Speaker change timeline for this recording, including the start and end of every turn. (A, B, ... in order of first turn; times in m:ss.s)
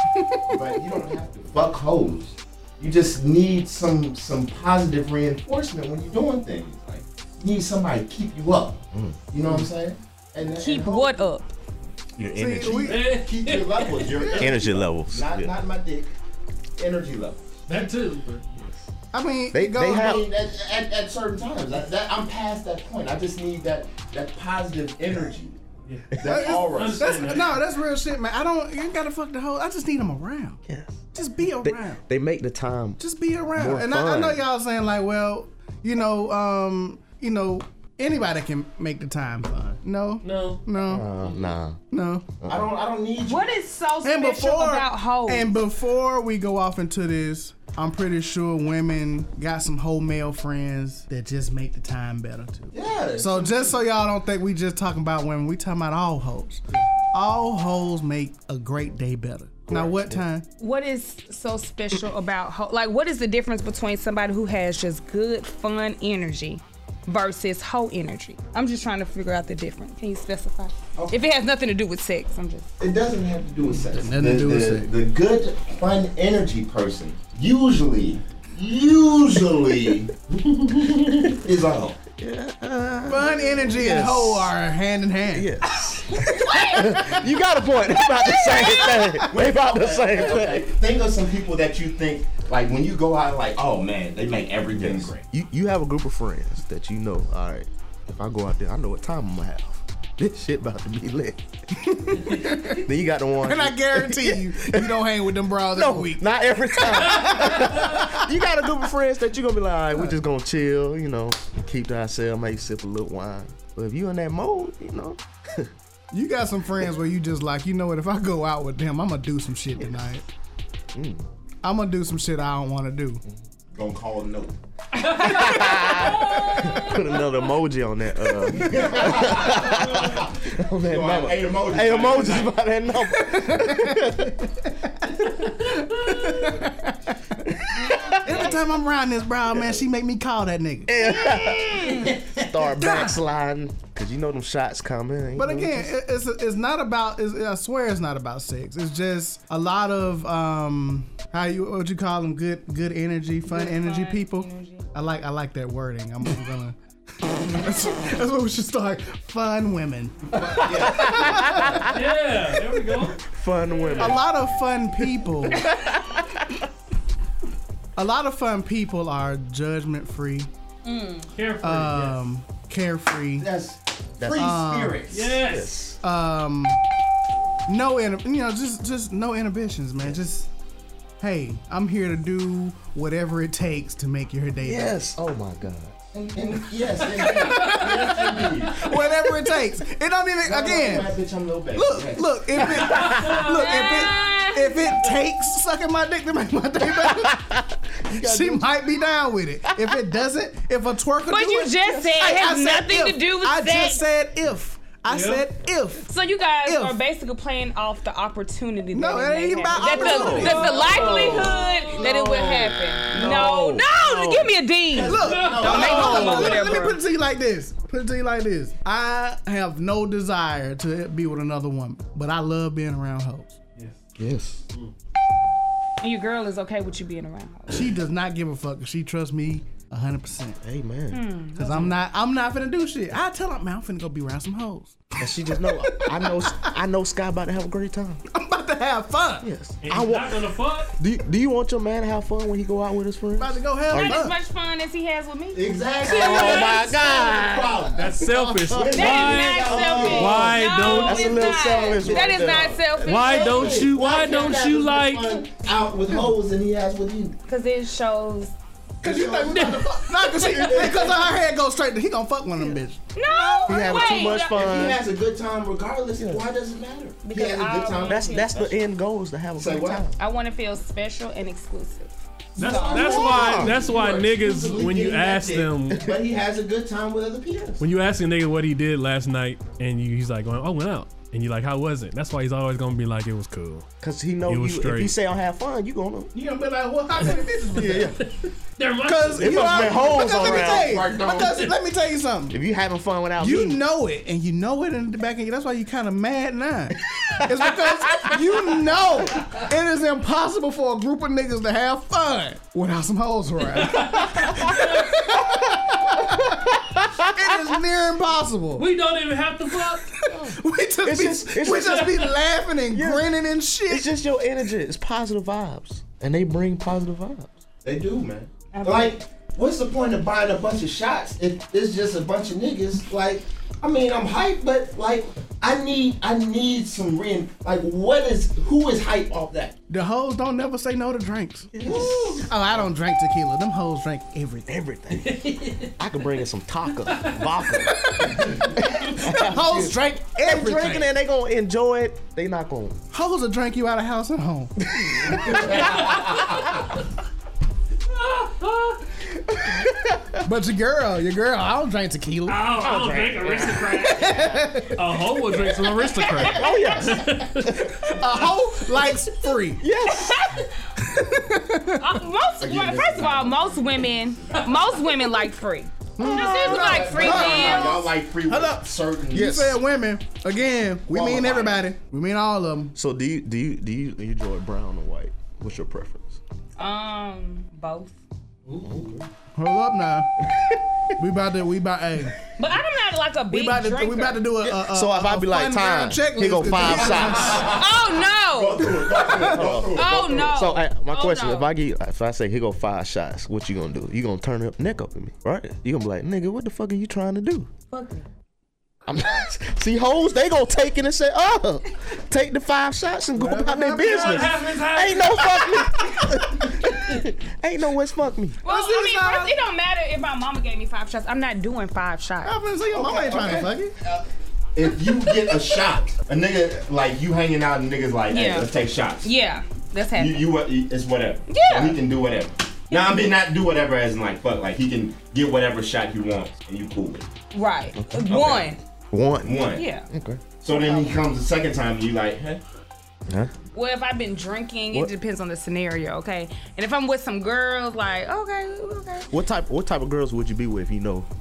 0:00.1-0:00.7 A
0:00.4-0:11.2 B
0:08.9-0:09.7 C
0:10.6-0:11.5 D
0:12.2-0:13.0 C
0:12.3-0:13.0 A
0:12.8-0:14.4 E
0:13.0-0:16.1 B
0:14.4-0:15.6 C
0:16.8-0:17.6 B
0:17.7-0:18.4 E
0:18.6-0:18.9 C
0:19.1-0:20.2 A
0:19.5-0:20.3 C
0:19.9-0:25.6 B
0:25.8-0:27.6 E
0:26.2-0:27.4 B
0:26.2-0:30.6 A
0:30.6-0:33.0 C
0:31.1-0:32.0 A
0:33.0-0:41.0 A
0:33.5-0:34.4 C
0:40.2-0:40.6 E
0:40.8-0:41.8 C
0:41.9-0:42.3 A
0:42.4-0:42.7 C
0:42.4-0:43.5 B
0:43.2-0:45.6 D
0:44.0-1:00.4 A
0:52.7-0:53.8 B
0:59.7-1:00.2 C
1:00.6-1:12.7 D
1:12.8-1:22.0 B
1:13.9-1:14.9 A
1:22.2-1:24.5 C
1:23.0-1:25.5 A
1:25.3-1:30.7 C
1:26.2-1:26.9 D
1:28.2-1:29.3 A
1:29.3-1:35.2 B
1:34.7-1:41.4 C
1:41.8-1:42.8 A
1:42.0-1:45.1 C
1:43.4-1:48.3 A
1:45.7-1:55.7 C
1:47.3-1:47.8 E
1:56.1-2:00.2 A
2:00.9-2:01.3 C
2:01.6-2:03.2 A
2:03.7-2:04.6 B
2:05.1-2:06.9 E
2:05.1-2:14.5 C
2:06.5-2:06.8 A
2:08.4-2:12.5 B
2:09.4-2:10.2 E
2:13.1-2:21.0 A
2:15.8-2:16.2 E
2:17.4-2:18.6 C
2:19.5-2:19.8 C
2:20.9-2:25.9 C
2:21.2-2:22.1 D
2:22.7-2:23.2 A
2:25.3-2:41.9 A
2:33.4-2:34.9 D
2:40.6-2:41.6 B
2:40.6-2:42.4 C
2:41.8-2:44.2 E
2:42.9-2:44.2 C
2:44.0-2:45.7 A
2:45.5-2:46.6 C
2:48.0-2:50.5 A
2:50.8-2:51.3 D
2:51.3-2:52.2 E
2:51.6-2:53.5 A
2:53.4-2:55.3 B
2:54.3-2:55.1 A
2:55.1-2:55.8 E
2:55.3-2:56.0 C
2:56.0-2:56.8 A
2:57.7-3:00.5 A
3:01.2-3:05.0 A
3:04.6-3:06.0 C
3:06.1-3:09.0 B
3:07.1-3:11.1 A
3:10.4-3:13.1 B
3:11.7-3:26.1 A
3:12.5-3:13.4 C
3:12.9-3:13.5 E
3:13.5-3:14.8 D
3:16.9-3:18.7 C
3:21.3-3:24.0 D
3:25.0-3:25.5 E
3:26.1-3:37.0 D
3:26.6-3:27.0 A
3:28.9-3:31.3 A
3:29.8-3:34.6 C
3:30.6-3:31.6 B
3:33.1-3:33.6 B
3:34.9-3:36.8 B
3:35.0-3:43.6 A
3:35.0-3:36.4 E
3:44.2-3:44.6 C
3:46.0-3:47.9 D
3:47.7-3:50.6 A
3:50.6-3:51.2 C
3:51.1-3:51.9 D
3:51.5-3:56.7 A
3:55.2-3:58.2 C
3:58.3-3:59.5 A
3:59.4-4:04.2 C
3:59.8-4:00.9 E
4:03.4-4:04.4 A
4:03.9-4:06.8 D
4:05.5-4:17.4 B
4:06.0-4:12.8 C
4:08.0-4:11.4 E
4:08.9-4:13.8 D
4:13.0-4:15.4 E
4:17.5-4:18.5 D
4:19.0-4:24.2 A
4:19.0-4:21.2 B
4:19.5-4:20.5 E
4:23.1-4:24.9 D
4:23.7-4:25.0 C
4:24.2-4:28.8 B
4:26.2-4:26.5 C
4:27.2-4:28.6 D
4:28.0-4:30.2 C
4:29.6-4:30.1 B
4:30.2-4:33.4 D
4:32.6-4:37.8 B
4:32.6-4:36.1 E
4:33.1-4:33.8 C
4:35.9-4:36.2 C
4:37.8-4:43.9 E
4:44.0-4:46.3 C
4:44.4-4:45.1 E
4:46.3-4:48.2 A
4:47.7-4:48.2 C
4:48.8-4:49.8 E
4:49.0-4:52.6 A
4:49.3-4:51.1 C
4:49.4-4:51.7 B
4:52.5-4:53.8 C
4:53.4-5:08.9 A
4:57.1-4:58.4 C
5:03.8-5:05.1 E
5:07.1-5:07.5 C
5:08.8-5:10.1 E
5:09.9-5:14.1 A
5:10.3-5:12.2 C
5:12.9-5:13.3 C
5:13.9-5:17.5 C
5:17.8-5:29.7 B
5:18.7-5:19.2 D
5:29.9-5:34.7 A
5:31.7-5:32.5 C
5:31.8-5:32.5 B
5:34.7-5:43.0 C
5:35.2-5:35.9 E
5:37.1-5:37.4 E
5:38.0-5:41.1 A
5:43.1-5:45.4 A
5:44.8-5:46.3 C
5:45.7-5:46.2 B
5:48.1-5:49.0 E
5:49.5-5:50.4 C
5:50.4-5:52.7 A
5:52.5-5:57.8 E
5:52.7-5:54.4 C
5:54.0-5:55.0 A
5:56.3-5:58.5 C
5:58.0-5:59.8 A
5:59.8-6:00.4 C
6:00.0-6:00.8 D
6:01.0-6:02.1 A
6:02.0-6:08.1 D
6:02.6-6:05.0 B
6:06.2-6:12.9 A
6:06.2-6:07.0 C
6:06.3-6:09.6 B
6:09.3-6:09.8 C
6:11.1-6:11.8 B
6:12.9-6:16.4 C
6:16.8-6:18.2 D
6:18.7-6:19.0 E
6:18.8-6:19.3 C
6:19.5-6:20.3 A
6:21.2-6:22.3 A
6:22.6-6:24.4 D
6:23.5-6:27.6 A
6:24.6-6:27.7 C
6:26.8-6:30.6 B
6:27.6-6:29.0 D
6:29.1-6:29.6 A
6:29.3-6:37.7 C
6:29.9-6:31.7 D
6:37.9-6:38.3 D
6:39.0-6:48.6 C
6:43.3-6:44.6 A
6:44.0-6:45.8 E
6:48.6-6:52.6 D
6:48.6-6:49.6 A
6:52.4-6:53.9 A
6:52.9-6:59.3 B
6:58.3-7:00.5 D
7:00.1-7:07.3 B
7:01.5-7:02.0 D
7:02.9-7:03.2 D
7:07.5-7:08.8 D
7:07.9-7:08.5 C
7:08.3-7:08.7 B
7:09.1-7:10.4 C
7:09.4-7:09.8 B
7:09.8-7:10.1 D
7:10.6-7:12.6 B
7:10.7-7:11.0 D
7:13.3-7:13.5 C
7:13.7-7:19.3 D
7:19.3-7:21.3 C